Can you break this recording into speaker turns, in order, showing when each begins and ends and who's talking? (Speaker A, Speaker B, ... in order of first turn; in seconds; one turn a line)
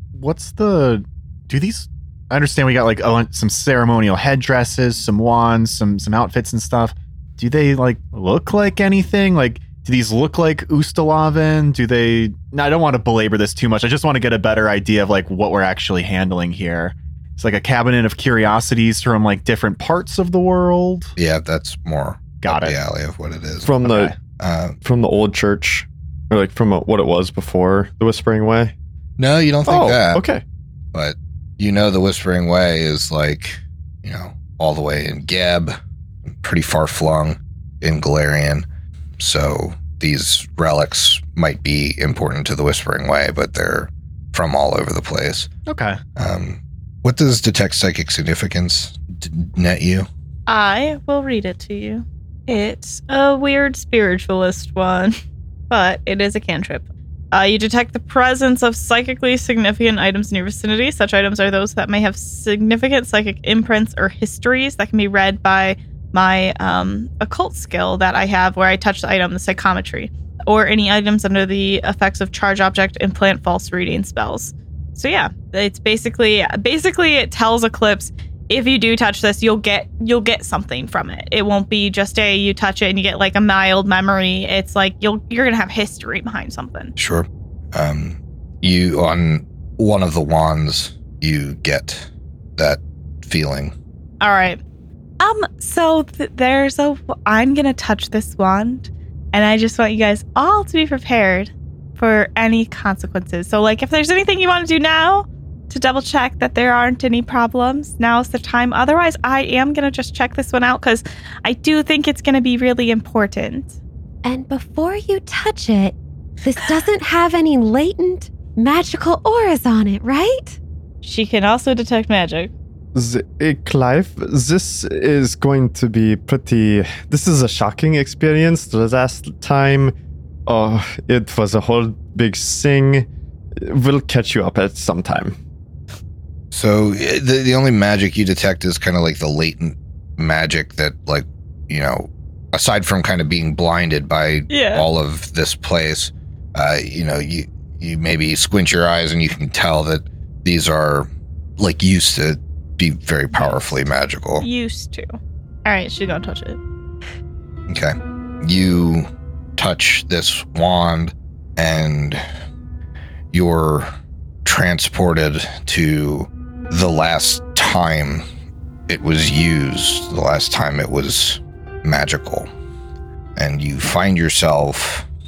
Speaker A: 0.1-21.1
Speaker B: 21.2-23.7
Speaker A: 22.4-22.8
Speaker C: 23.6-24.1
Speaker A: 23.8-24.1
Speaker B: 24.4-24.8
Speaker C: 24.8-28.7
Speaker B: 29.2-30.2
Speaker C: 29.6-30.4
Speaker B: 30.9-35.8
Speaker B: 36.4-38.6
Speaker B: 39.2-45.5
Speaker A: 45.7-46.0
Speaker B: 46.2-50.1
Speaker D: 50.5-55.1
Speaker D: 55.7-86.9
Speaker B: 87.0-93.7
Speaker D: 94.2-94.6
Speaker D: 95.2-113.8
Speaker E: 114.2-120.6
Speaker D: 121.0-122.5
Speaker C: 122.9-129.9
Speaker C: 130.5-135.4
Speaker B: 136.5-154.4
Speaker D: 144.5-144.8
Speaker D: 154.4-156.6
Speaker B: 157.7-162.2
Speaker B: 163.3-163.9
Speaker B: 164.4-168.2
Speaker B: 168.9-172.5
Speaker B: 173.3-175.1